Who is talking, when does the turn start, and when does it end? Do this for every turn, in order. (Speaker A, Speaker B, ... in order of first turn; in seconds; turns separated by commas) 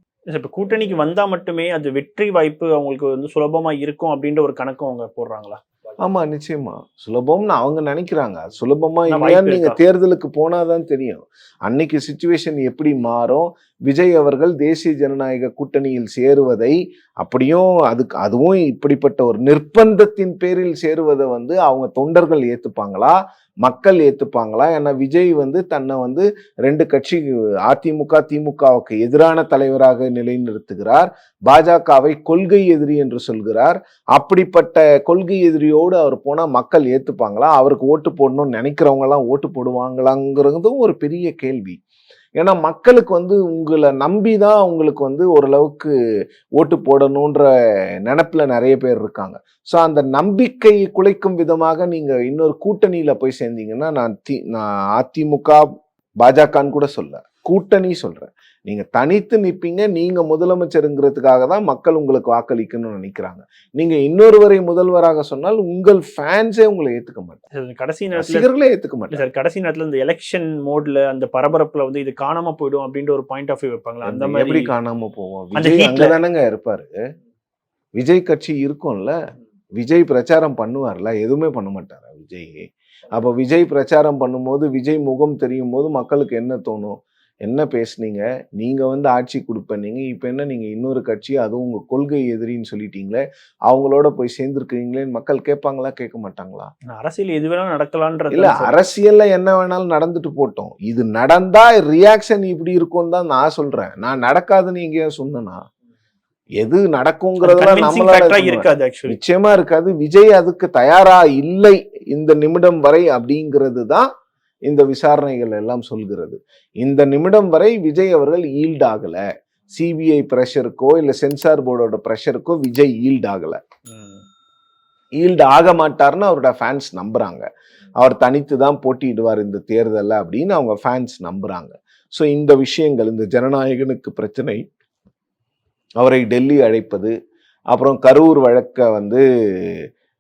Speaker A: 0.3-5.7, Speaker B: 6.0-41.8, Speaker A: 9.1-9.8, Speaker B: 42.4-45.9, Speaker B: 46.6-47.5, Speaker B: 48.0-55.6, Speaker B: 56.2-67.4, Speaker A: 67.5-68.5, Speaker B: 68.2-69.2, Speaker A: 69.1-74.7, Speaker B: 74.0-76.9, Speaker A: 75.6-76.2, Speaker B: 78.0-79.2, Speaker B: 79.8-96.7, Speaker A: 96.9-98.8, Speaker B: 98.3-105.6, Speaker B: 106.6-114.1, Speaker A: 107.4-109.2, Speaker B: 114.7-119.2, Speaker B: 119.7-123.6, Speaker A: 123.9-124.2, Speaker B: 125.2-127.5, Speaker B: 128.0-134.6, Speaker B: 136.0-137.1, Speaker B: 137.7-139.2